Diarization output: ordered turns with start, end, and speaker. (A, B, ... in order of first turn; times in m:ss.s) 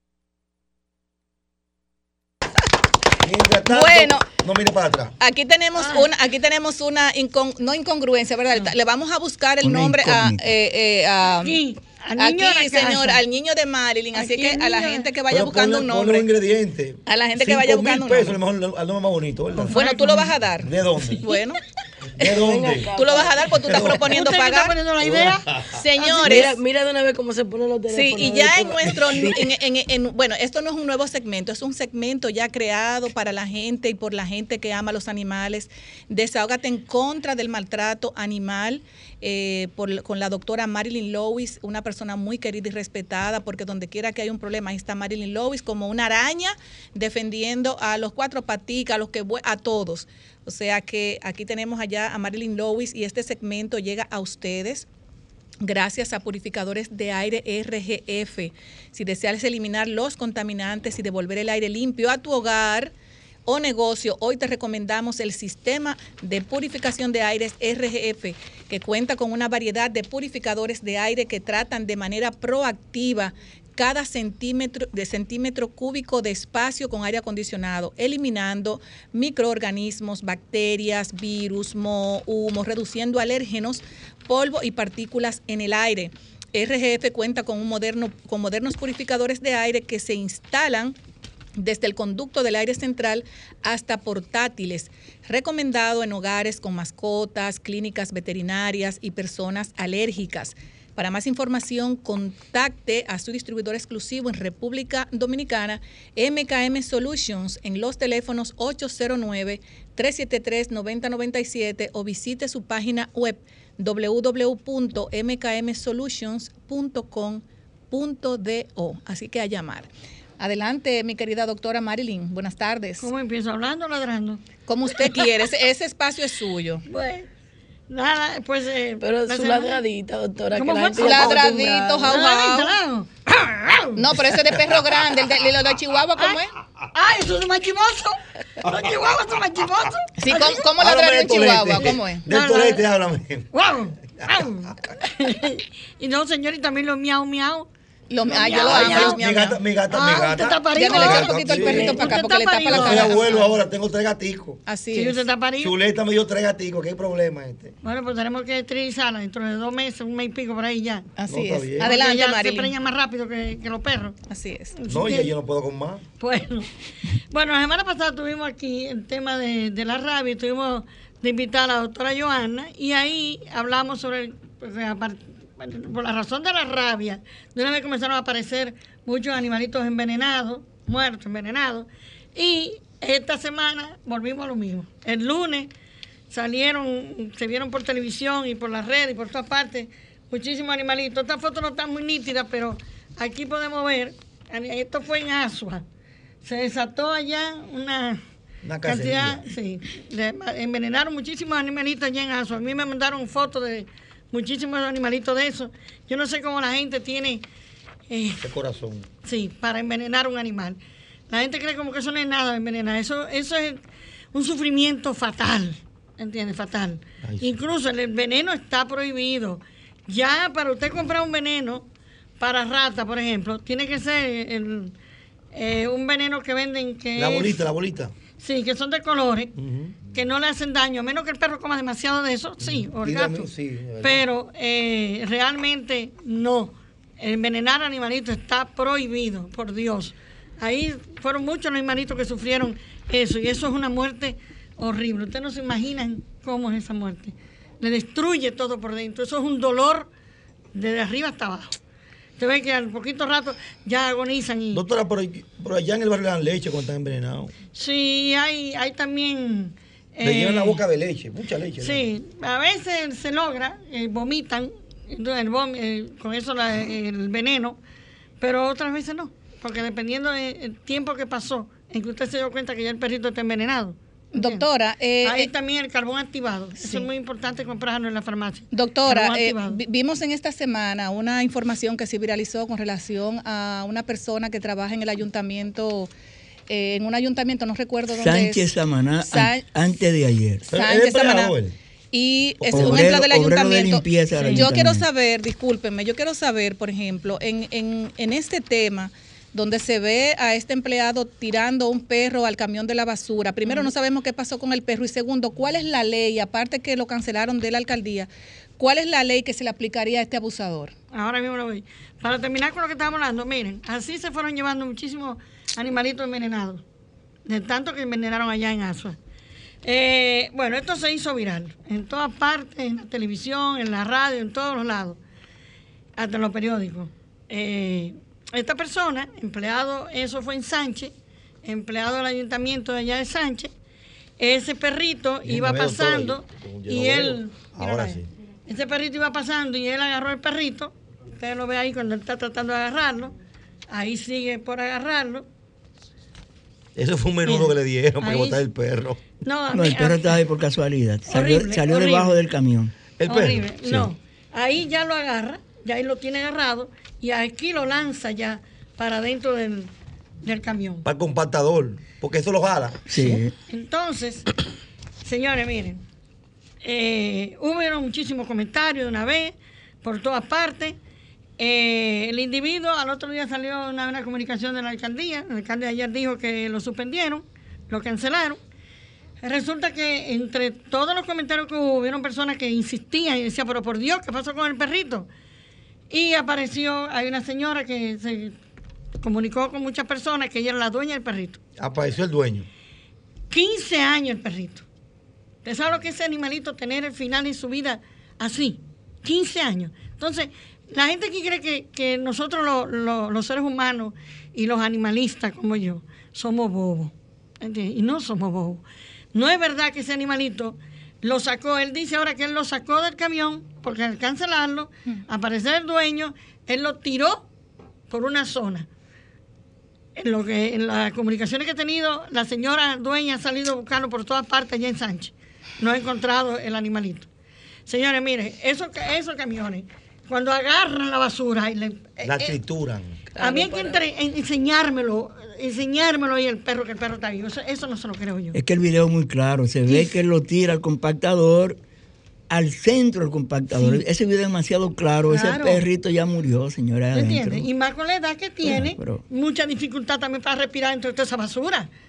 0:03.2-0:05.2 A
0:03.7-0:04.2 B
0:05.2-0:11.6 B
0:05.8-0:06.1 C
0:09.6-0:10.5 D
0:11.4-0:13.2 C
0:12.2-0:16.3 B
0:14.1-0:15.1 C
0:15.3-0:19.8 A
0:17.0-0:18.4 B
0:19.6-0:20.3 C
0:19.7-0:20.7 B
0:20.6-0:21.2 A
0:21.2-0:21.6 B
0:22.1-0:22.9 A
0:22.2-0:24.8 B
0:22.2-0:23.5 E
0:23.6-0:24.2 A
0:24.0-0:26.5 C
0:25.0-0:25.8 A
0:25.7-0:26.6 B
0:26.2-0:29.4 E
0:27.9-0:54.9 B
0:55.6-1:02.9 B
1:03.4-1:31.0 B
1:31.6-1:59.9 B
2:00.4-2:03.1 B
2:03.0-2:04.4 C
2:04.6-2:06.8 B
2:06.9-2:07.3 C
2:07.9-2:09.8 C
2:09.0-2:12.1 E
2:10.5-2:13.9 C
2:11.0-2:12.8 B
2:13.9-2:16.5 B
2:16.9-2:20.5 C
2:18.6-2:19.4 A
2:20.2-2:22.2 B
2:20.7-2:23.5 A
2:22.3-2:22.8 C
2:23.5-2:27.7 C
2:24.2-2:24.4 A
2:28.1-2:29.6 B
2:28.3-2:29.2 C
2:28.7-2:32.2 A
2:29.9-2:33.6 C
2:30.7-2:33.5 B
2:32.7-2:34.6 A
2:34.6-2:35.2 B
2:34.9-2:35.7 C
2:35.6-2:37.7 A
2:37.8-2:41.1 C
2:41.2-2:42.7 B
2:41.3-2:41.9 A
2:41.8-2:44.2 C
2:44.3-2:44.7 B
2:44.8-2:45.3 C
2:44.9-2:46.0 A
2:46.2-2:46.7 C
2:47.3-3:05.7 C
3:06.3-3:15.8 C
3:16.4-3:18.2 C
3:18.6-3:19.4 A
3:18.8-3:27.4 C
3:28.1-3:28.5 C
3:28.4-3:29.1 A
3:29.2-3:30.8 C
3:31.3-3:33.8 C
3:34.3-3:41.8 C
3:37.2-3:37.6 A
3:42.4-3:44.9 C
3:45.5-3:47.6 C
3:47.2-3:48.1 A
3:48.4-3:49.5 C
3:49.6-3:50.0 A
3:50.1-4:10.1 C
3:52.6-3:54.2 A
4:10.7-4:11.7 C
4:12.4-4:14.8 C
4:14.7-4:17.5 A
4:17.7-4:20.8 C
4:20.2-4:22.1 A
4:21.8-4:27.8 C
4:28.4-4:34.6 C
4:34.3-4:35.5 B
4:35.2-4:39.8 C
4:36.8-4:37.1 B
4:38.7-4:46.1 B
4:46.7-4:48.6 B
4:48.2-4:50.6 D
4:49.2-4:49.7 B
4:50.7-4:51.5 B
4:50.7-4:51.7 A
4:52.1-5:10.9 B
4:52.6-4:53.1 A
4:52.7-4:55.0 D
4:54.3-4:54.7 C
5:03.6-5:03.9 C
5:11.1-5:16.8 C
5:17.4-5:19.2 C
5:19.8-5:25.2 C
5:26.2-5:31.1 C
5:31.6-5:33.7 C
5:34.4-5:43.3 C
5:35.4-5:38.3 A
5:43.9-5:45.4 C
5:47.0-5:49.2 A
5:47.4-5:48.6 C
5:49.4-5:50.4 C
5:49.7-5:52.9 D
5:51.3-5:52.4 C
5:53.2-5:54.1 A
5:53.2-5:59.9 C
6:00.4-6:01.0 C
6:01.0-6:03.4 A
6:03.1-6:03.5 D
6:03.7-6:04.4 C
6:05.2-6:06.0 C
6:06.8-6:11.0 C
6:11.6-6:18.6 C
6:19.4-6:25.3 C
6:26.1-6:28.6 C
6:29.2-6:31.6 C
6:31.8-6:32.7 A
6:33.5-6:34.8 C
6:35.6-6:48.8 C
6:49.3-6:57.4 C
6:58.1-6:58.9 C
7:00.2-7:07.3 C
7:07.9-7:12.6 C
7:12.2-7:13.2 A
7:13.3-7:14.0 E
7:13.4-7:18.6 C
7:18.5-7:21.8 D
7:19.9-7:20.1 C
7:22.5-7:27.7 D
7:23.8-7:24.0 C
7:25.3-7:25.8 C
7:27.1-7:31.9 C
7:28.6-7:29.2 D